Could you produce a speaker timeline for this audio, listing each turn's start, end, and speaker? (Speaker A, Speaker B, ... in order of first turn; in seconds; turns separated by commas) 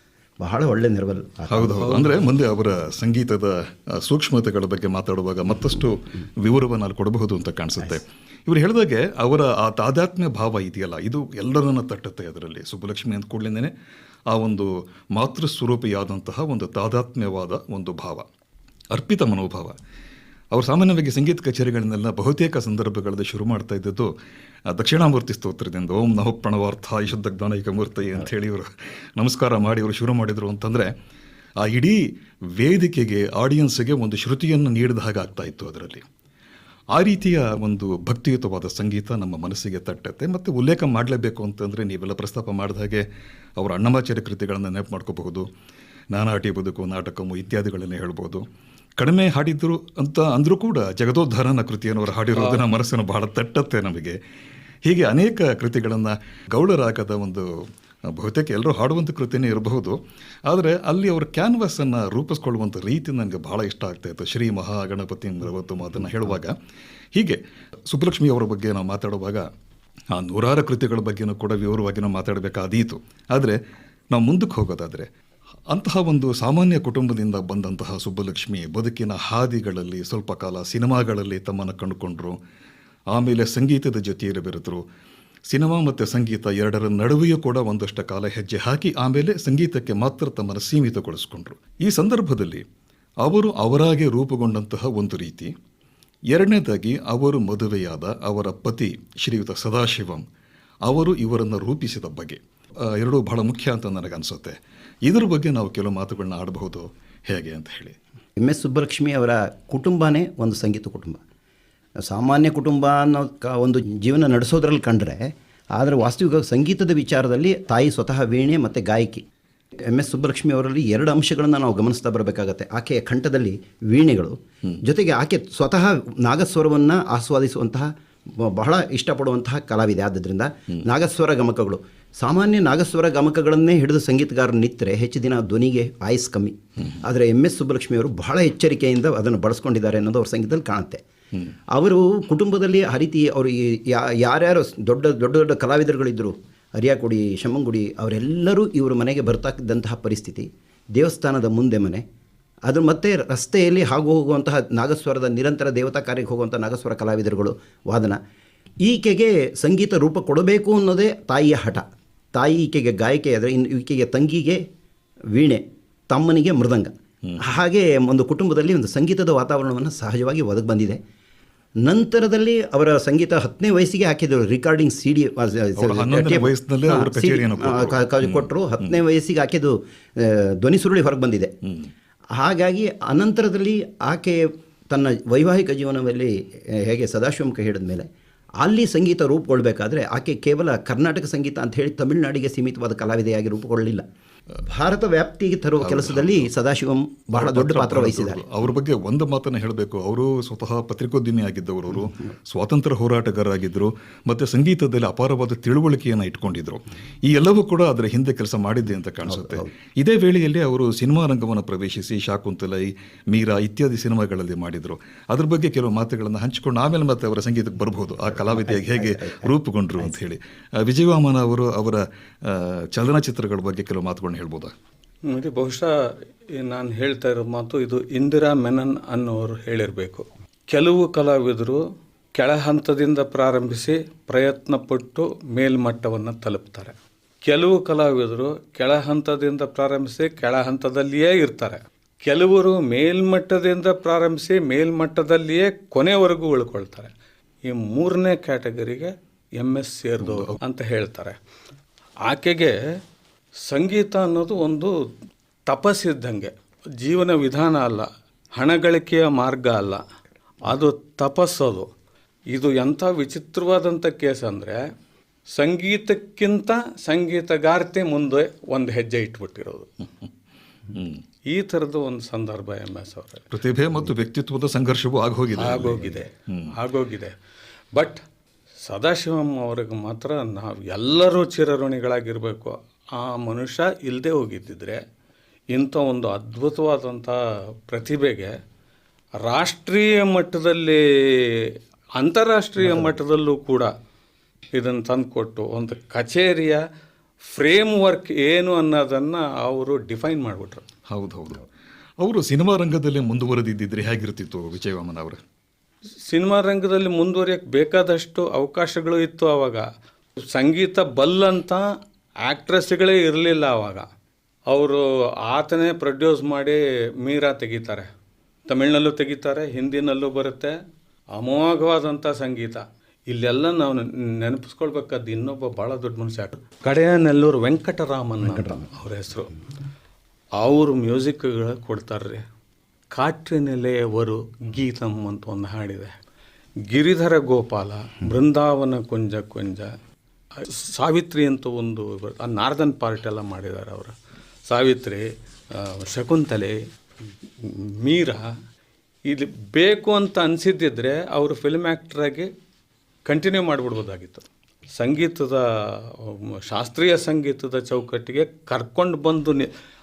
Speaker A: 0.4-2.2, Speaker B: 1.5-13.7, Speaker B: 14.3-18.3, Speaker B: 18.9-19.8, Speaker B: 20.5-24.1, Speaker B: 24.7-30.9, Speaker B: 31.6-36.1, Speaker B: 36.9-43.1, Speaker B: 43.6-45.5, Speaker B: 46.1-48.5, Speaker B: 49.0-54.2, Speaker B: 54.9-57.5, Speaker B: 58.0-66.6, Speaker B: 67.2-69.5, Speaker B: 70.1-73.6, Speaker B: 74.1-75.1, Speaker B: 75.7-82.4, Speaker B: 83.1-84.8, Speaker B: 85.5-92.6, Speaker B: 93.2-95.5, Speaker B: 96.3-100.2, Speaker B: 100.8-108.0, Speaker A: 108.4-111.2, Speaker A: 112.1-119.2, Speaker A: 119.9-141.0, Speaker A: 141.7-152.0, Speaker A: 152.7-158.2, Speaker A: 158.8-164.6, Speaker A: 165.3-171.0, Speaker A: 171.8-181.5, Speaker B: 175.8-179.0, Speaker B: 181.6-181.9, Speaker A: 182.3-188.1, Speaker A: 188.6-194.1, Speaker A: 194.6-198.4, Speaker B: 195.8-196.5, Speaker B: 197.3-224.7, Speaker A: 209.3-209.7, Speaker A: 218.5-219.5, Speaker C: 225.2-231.8, Speaker C: 232.3-247.1, Speaker C: 247.6-251.4, Speaker B: 250.2-250.6, Speaker C: 252.2-252.8, Speaker C: 253.7-255.0, Speaker C: 255.7-260.0, Speaker C: 260.6-261.9, Speaker C: 262.5-264.8, Speaker C: 265.5-269.9, Speaker B: 270.9-271.2, Speaker C: 271.5-273.5, Speaker B: 273.5-276.7, Speaker C: 275.5-277.4, Speaker C: 277.9-278.2, Speaker C: 278.9-285.0, Speaker C: 285.7-288.5, Speaker C: 289.4-293.9, Speaker A: 292.9-293.1, Speaker C: 294.7-296.8, Speaker C: 297.4-300.9, Speaker B: 301.1-301.7, Speaker B: 302.2-305.4, Speaker C: 306.3-309.9, Speaker C: 310.4-311.9, Speaker C: 312.4-314.1, Speaker C: 314.7-318.1, Speaker C: 318.7-320.8, Speaker C: 321.3-329.6, Speaker A: 328.5-328.8, Speaker C: 330.6-332.4, Speaker C: 333.1-336.2, Speaker C: 336.9-339.9, Speaker C: 340.6-344.1, Speaker C: 344.7-346.8, Speaker C: 347.6-348.5, Speaker C: 349.3-352.5, Speaker C: 353.3-359.7